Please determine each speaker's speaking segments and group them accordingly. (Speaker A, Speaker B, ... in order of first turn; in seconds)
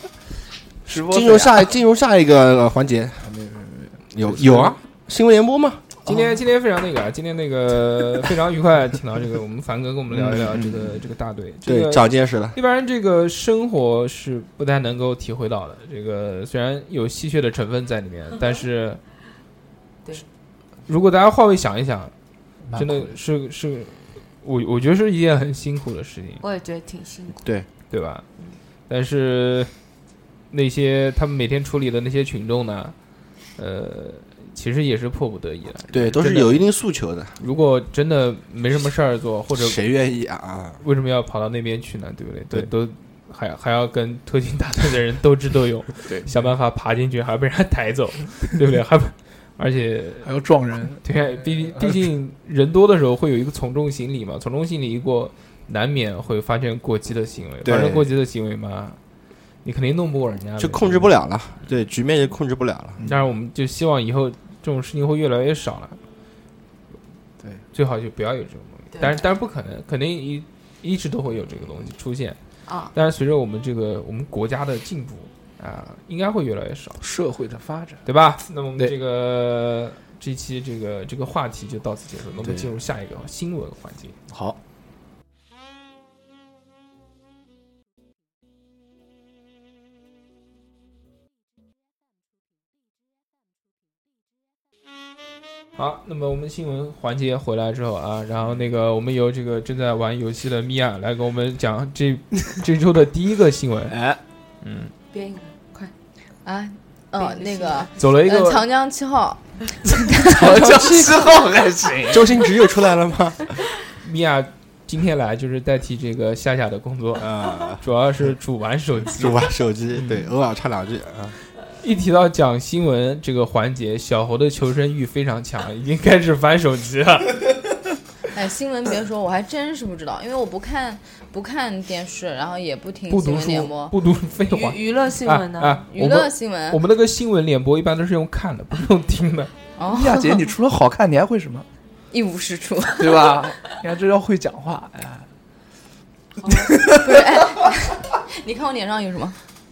Speaker A: 0.8-1.7, 3.2-4.7, 6.1-6.4, 10.1-11.0, 22.7-23.2, 50.2-52.0, 63.0-63.2, 77.0-78.0, 84.3-84.6, 103.9-104.2, 110.1-112.3, 139.9-141.7, 143.0-145.3, 146.7-147.2
Speaker B: 1.1-3.3, 4.1-5.8, 11.7-12.6, 35.9-37.4, 39.6-40.8, 57.6-58.1, 60.6-63.0, 110.6-111.2, 112.1-113.5, 117.2-117.8, 119.1-121.4
Speaker C: 4.4-4.7, 6.0-19.0, 20.9-22.1, 22.8-26.4, 27.9-28.2, 28.9-29.7, 30.5-33.0, 33.6-36.7, 37.4-39.8, 40.8-50.3, 51.0-59.0, 59.6-61.1, 63.0-66.0, 67.7-72.4, 72.9-77.0, 78.1-84.2, 95.8-104.0, 104.6-104.9, 108.0-108.6, 114.0-120.3, 121.8-127.6, 133.1-139.5
Speaker D: 26.4-27.5, 68.9-69.3, 72.7-72.9, 105.1-105.9, 107.2-107.9, 134.5-135.8
Speaker E: 106.5-110.6, 128.3-133.9, 135.9-136.8, 139.8-140.5, 142.1-143.4, 146.6-149.4